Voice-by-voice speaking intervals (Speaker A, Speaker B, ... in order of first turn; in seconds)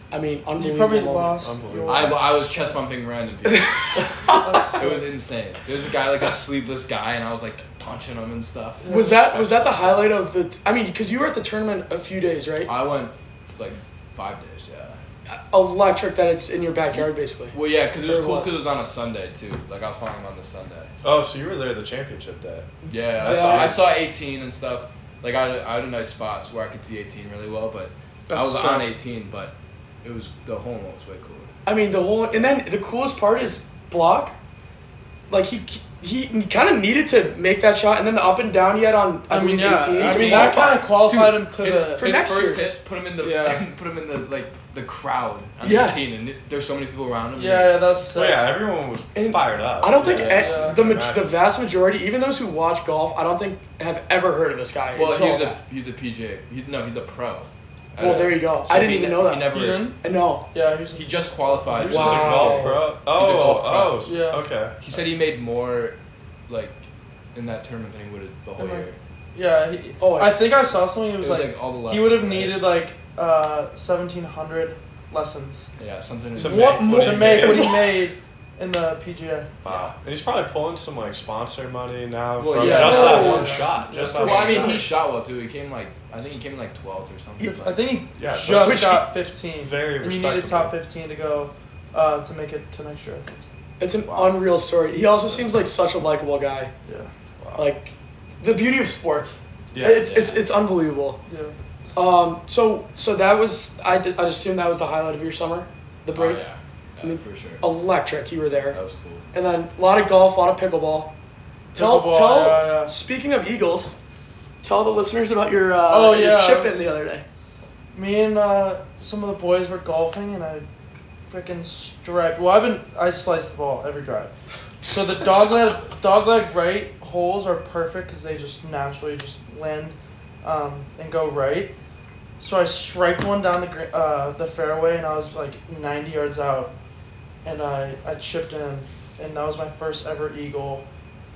Speaker A: 0.1-1.4, 3.4-4.4, 8.8-12.7, 15.3-18.6, 22.9-23.8, 31.6-34.3, 35.3-40.9, 42.0-42.8, 45.6-46.1, 49.1-55.6, 58.0-60.5, 61.8-62.8, 70.0-70.4, 76.3-78.0, 82.6-84.9, 88.6-89.0, 93.8-96.7, 97.5-101.2, 101.9-106.4, 107.0-108.8, 109.3-111.1, 111.8-113.9, 114.6-117.2
Speaker B: 0.6-2.8, 4.3-5.1, 8.8-9.3, 28.3-28.9, 39.3-42.2, 43.2-43.6, 47.3-48.6, 50.3-50.8, 59.5-60.0, 60.5-62.2, 64.0-64.4, 68.6-75.7, 76.9-79.5, 82.6-84.8, 87.4-93.4, 96.8-97.1, 101.3-101.5, 111.7-112.9, 115.9-117.0, 117.9-120.7, 121.2-124.3, 124.9-131.7, 132.4-136.7, 137.4-140.8
Speaker C: 1.4-2.2, 9.3-10.1, 21.0-23.8, 48.1-51.3, 61.9-64.8, 76.3-77.7, 79.6-84.8, 88.2-90.8, 94.0-94.4, 97.4-97.7, 99.7-100.0
Speaker D: 1.9-4.1, 4.7-8.9, 12.7-15.0, 16.9-20.9, 22.9-31.5, 39.9-47.9, 50.0-50.7, 54.9-59.9, 60.9-64.0, 64.8-66.0, 66.5-69.0, 71.2-72.7, 75.8-76.8, 79.6-79.9, 82.4-87.9, 99.9-100.5, 106.1-107.6, 108.7-109.3